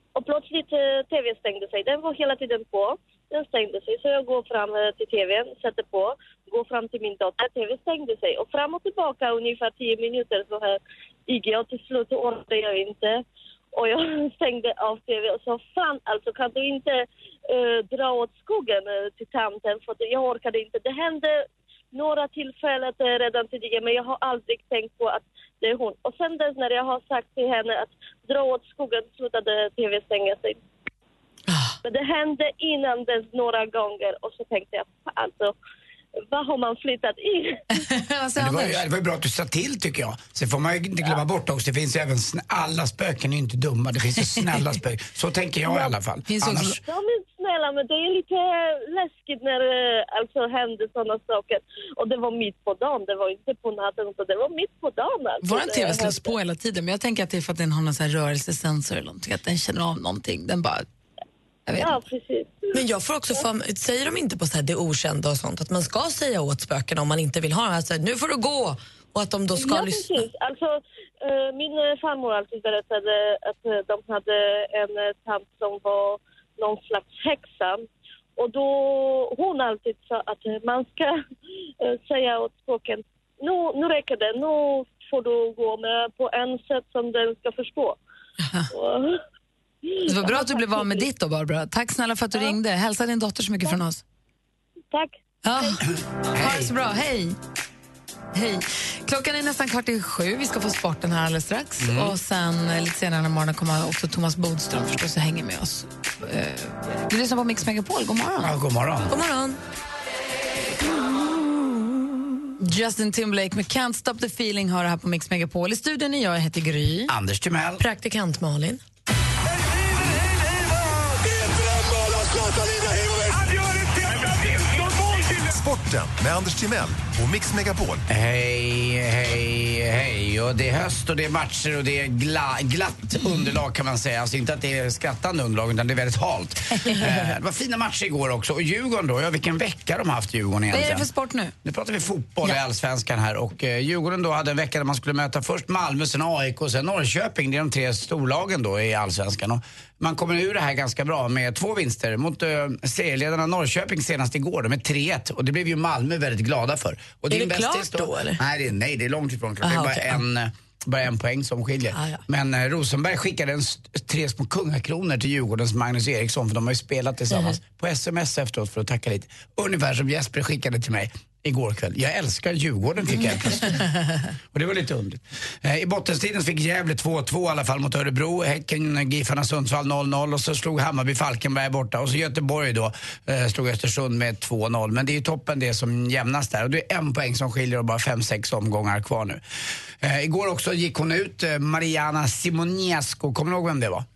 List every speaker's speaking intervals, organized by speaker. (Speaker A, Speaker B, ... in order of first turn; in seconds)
Speaker A: 0.2-13.2, 13.8-30.6, 31.8-35.5, 36.3-37.6, 46.8-56.3, 61.8-62.7, 69.6-77.8, 78.4-81.2, 81.8-88.0, 88.7-89.2, 89.8-91.0, 94.9-95.8
Speaker B: 31.5-31.8, 62.7-70.3, 109.1-109.6, 117.8-118.8, 157.3-158.4, 159.6-160.2, 161.9-162.2
Speaker C: 37.8-38.8, 46.3-46.8, 55.4-60.9, 61.7-62.0, 90.1-94.0, 95.4-95.8, 96.3-97.4, 98.3-108.5, 112.6-117.1, 140.7-141.5
Speaker D: 38.4-46.8, 96.3-96.7, 101.8-102.2, 108.4-109.2, 117.1-117.8, 128.1-141.1, 141.6-173.8, 174.5-189.4, 190.0-194.1
Speaker E: 119.6-128.0